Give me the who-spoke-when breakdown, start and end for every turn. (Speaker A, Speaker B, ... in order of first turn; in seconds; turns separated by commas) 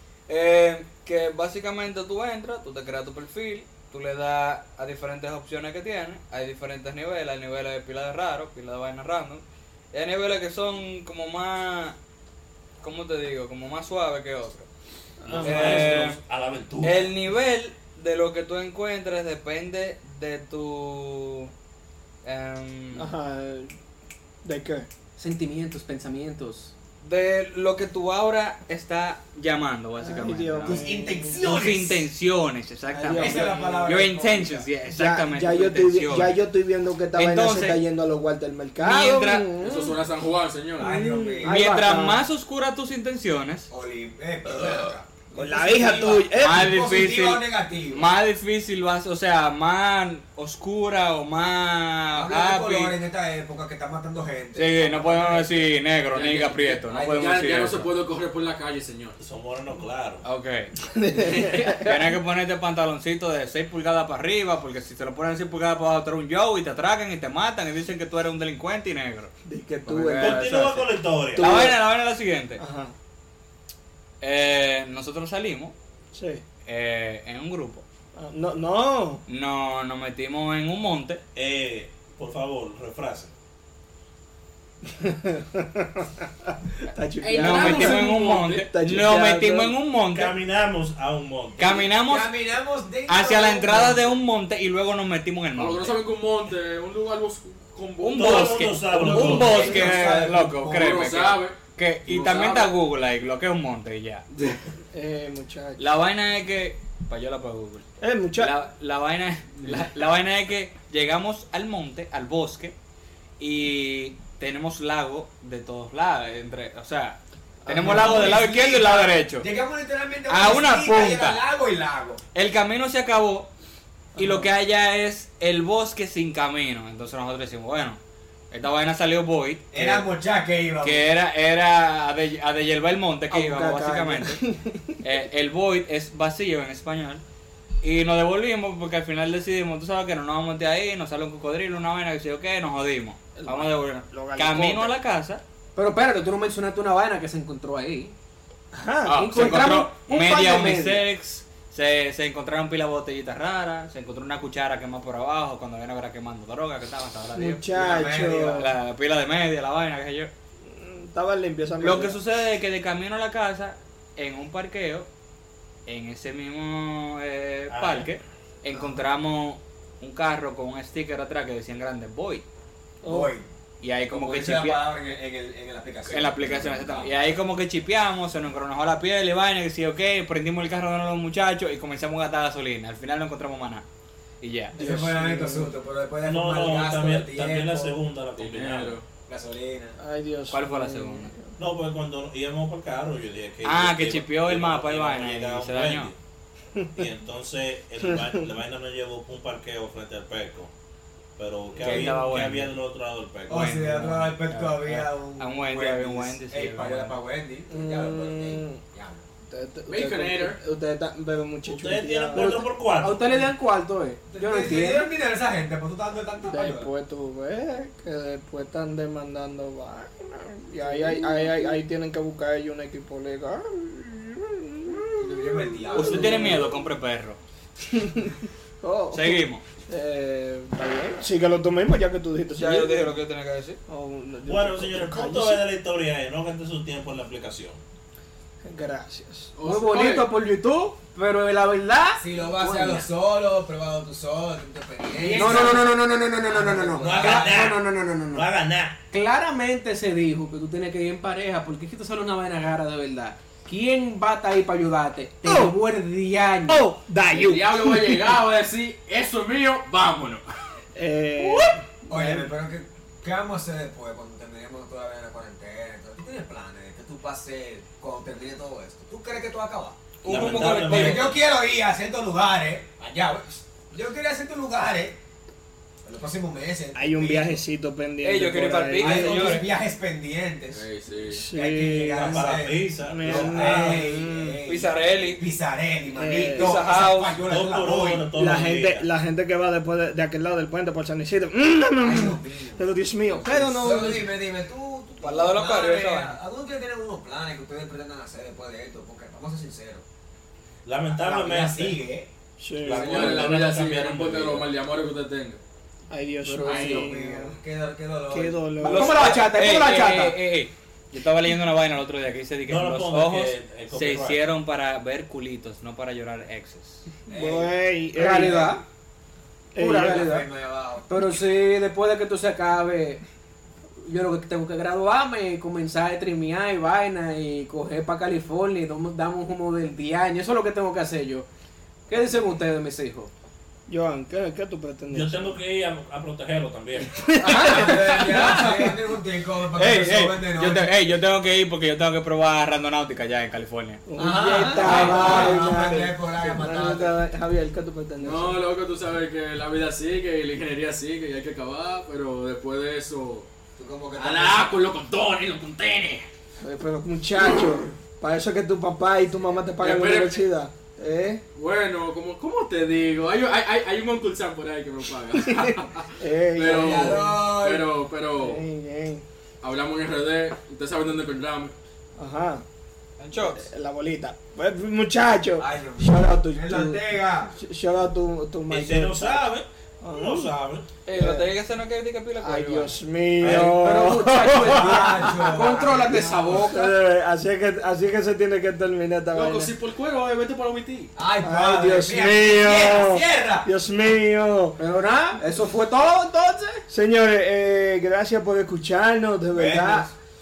Speaker A: 0.3-11.9, Speaker A: 12.8-14.7, Speaker B: 15.2-16.0, Speaker C: 15.3-17.1, Speaker A: 15.4-16.2, Speaker A: 16.8-21.5, Speaker A: 22.2-23.1, Speaker B: 22.9-23.7, Speaker B: 24.4-24.9, Speaker D: 25.2-26.7, Speaker A: 27.0-30.9, Speaker B: 30.0-31.4, Speaker E: 30.6-32.1, Speaker A: 31.4-36.4, Speaker B: 32.9-33.8, Speaker E: 33.1-34.7, Speaker B: 34.9-40.0, Speaker A: 37.1-37.8, Speaker A: 38.8-39.5, Speaker F: 39.6-40.9, Speaker E: 40.8-41.6, Speaker B: 40.8-42.2, Speaker A: 41.4-43.7, Speaker E: 43.7-48.1, Speaker B: 45.3-46.6, Speaker A: 46.1-52.9, Speaker E: 52.1-55.6, Speaker A: 54.5-57.9, Speaker F: 56.1-59.2, Speaker C: 59.2-60.2, Speaker A: 60.2-69.3, Speaker B: 60.9-62.0, Speaker B: 69.5-70.5, Speaker A: 69.8-72.6, Speaker C: 70.1-71.6, Speaker B: 71.3-71.8, Speaker B: 72.6-72.9, Speaker A: 74.2-75.7, Speaker B: 76.1-76.4, Speaker A: 76.7-77.8, Speaker B: 78.2-79.2, Speaker A: 79.3-81.2, Speaker C: 81.3-83.3, Speaker B: 84.8-89.8, Speaker F: 87.2-88.7, Speaker A: 87.4-90.4, Speaker C: 90.1-91.8, Speaker A: 91.6-92.3, Speaker E: 91.8-94.2, Speaker A: 93.1-96.0, Speaker F: 95.6-98.7, Speaker A: 98.0-104.2, Speaker C: 98.1-99.8, Speaker B: 98.9-99.8, Speaker E: 98.9-101.3, Speaker F: 100.7-102.8, Speaker B: 104.9-105.9, Speaker A: 105.8-112.8, Speaker B: 108.0-108.5, Speaker F: 109.6-109.9, Speaker A: 113.4-119.5, Speaker B: 117.6-118.4, Speaker E: 117.7-122.2, Speaker A: 120.3-121.4, Speaker A: 122.3-123.5, Speaker B: 124.2-124.5, Speaker A: 124.2-128.0, Speaker A: 128.5-130.1, Speaker E: 129.7-131.1, Speaker A: 130.8-134.4, Speaker B: 133.3-135.0, Speaker A: 135.0-137.2, Speaker A: 137.8-145.4, Speaker B: 143.4-145.0, Speaker D: 145.8-148.1, Speaker B: 148.7-149.8, Speaker F: 149.1-149.4, Speaker D: 149.2-151.1, Speaker A: 149.2-157.6, Speaker B: 157.3-158.7, Speaker E: 157.7-158.6, Speaker A: 158.5-160.3, Speaker B: 160.6-162.2, Speaker A: 161.8-165.1, Speaker A: 165.9-172.4, Speaker C: 167.7-168.1, Speaker B: 173.0-173.3, Speaker E: 173.0-173.5, Speaker A: 173.8-174.8, Speaker E: 174.1-177.2, Speaker A: 176.1-183.8, Speaker A: 184.4-184.9, Speaker B: 184.8-185.7, Speaker E: 184.8-188.0, Speaker C: 186.2-189.0, Speaker F: 188.4-189.0, Speaker E: 189.3-190.0, Speaker B: 190.0-191.6, Speaker A: 190.5-191.3, Speaker C: 191.6-196.1, Speaker A: 193.6-196.1, Speaker B: 196.8-197.1, Speaker C: 196.9-200.7, Speaker B: 198.0-198.4, Speaker C: 201.4-203.7, Speaker A: 201.8-202.8, Speaker E: 201.8-202.2, Speaker E: 203.5-209.2, Speaker A: 203.5-207.2, Speaker B: 207.7-208.8, Speaker B: 209.5-212.6, Speaker F: 209.9-210.6, Speaker C: 211.7-213.5, Speaker D: 212.3-215.1, Speaker E: 214.3-216.9, Speaker B: 216.5-226.8, Speaker E: 225.2-226.7, Speaker A: 225.9-227.4, Speaker B: 227.9-233.1, Speaker A: 229.1-229.6, Speaker A: 232.5-233.8, Speaker B: 233.9-235.6, Speaker C: 234.4-237.8, Speaker B: 238.6-239.5, Speaker F: 239.6-240.3, Speaker D: 239.6-243.1, Speaker E: 242.2-245.9, Speaker D: 245.2-248.5, Speaker E: 246.5-247.8, Speaker C: 247.1-247.8, Speaker C: 248.3-248.9, Speaker D: 249.1-256.9, Speaker B: 255.4-255.7, Speaker B: 256.7-258.3, Speaker F: 257.3-260.4, Speaker B: 260.9-262.5, Speaker E: 262.1-275.2, Speaker A: 270.2-271.4, Speaker C: 270.2-271.4, Speaker E: 276.1-277.6, Speaker B: 276.9-279.7, Speaker A: 278.2-279.7, Speaker E: 279.0-280.8, Speaker F: 280.7-281.4, Speaker B: 281.3-282.5, Speaker E: 281.5-288.3, Speaker C: 282.1-284.1, Speaker B: 283.1-284.6, Speaker A: 284.6-285.4, Speaker B: 286.1-286.8, Speaker A: 286.5-287.4, Speaker C: 287.4-289.1, Speaker B: 288.3-294.3, Speaker E: 292.0-300.0, Speaker A: 295.2-296.4, Speaker C: 300.9-302.0, Speaker E: 301.1-302.3, Speaker B: 302.6-303.2, Speaker C: 302.8-304.7, Speaker F: 302.9-305.6, Speaker B: 306.1-307.6, Speaker D: 306.4-307.1, Speaker E: 306.6-308.9, Speaker B: 308.3-309.4, Speaker D: 308.8-310.4, Speaker A: 308.8-317.0, Speaker C: 312.7-314.4, Speaker E: 317.3-317.7, Speaker B: 317.3-318.8, Speaker D: 318.1-318.8, Speaker B: 319.8-320.3, Speaker D: 319.8-320.4, Speaker E: 319.9-321.1, Speaker D: 321.1-323.2, Speaker D: 324.1-331.5, Speaker D: 332.1-333.3, Speaker B: 333.9-335.6, Speaker C: 335.1-337.2, Speaker B: 337.2-338.9, Speaker D: 337.4-338.6, Speaker E: 337.5-341.0, Speaker A: 339.7-344.1, Speaker B: 344.1-348.6, Speaker E: 344.2-347.1, Speaker F: 344.8-345.6, Speaker F: 348.2-353.5, Speaker E: 353.8-354.7, Speaker F: 354.1-356.3, Speaker B: 356.6-361.4, Speaker F: 359.8-360.4, Speaker F: 361.5-368.6, Speaker B: 365.3-367.3, Speaker E: 366.6-367.9, Speaker B: 368.4-369.2, Speaker F: 369.6-371.7, Speaker B: 372.2-372.6, Speaker A: 373.2-373.7, Speaker B: 373.3-379.5, Speaker E: 375.6-377.6, Speaker C: 378.7-380.9, Speaker B: 380.0-380.5, Speaker A: 381.1-383.0, Speaker B: 381.1-381.5, Speaker B: 382.4-389.7, Speaker C: 383.4-383.8, Speaker D: 383.4-386.9, Speaker E: 384.6-386.6, Speaker F: 389.3-391.1, Speaker E: 391.2-393.7, Speaker B: 391.4-394.8, Speaker D: 394.8-396.8, Speaker B: 396.9-400.1, Speaker E: 399.5-400.1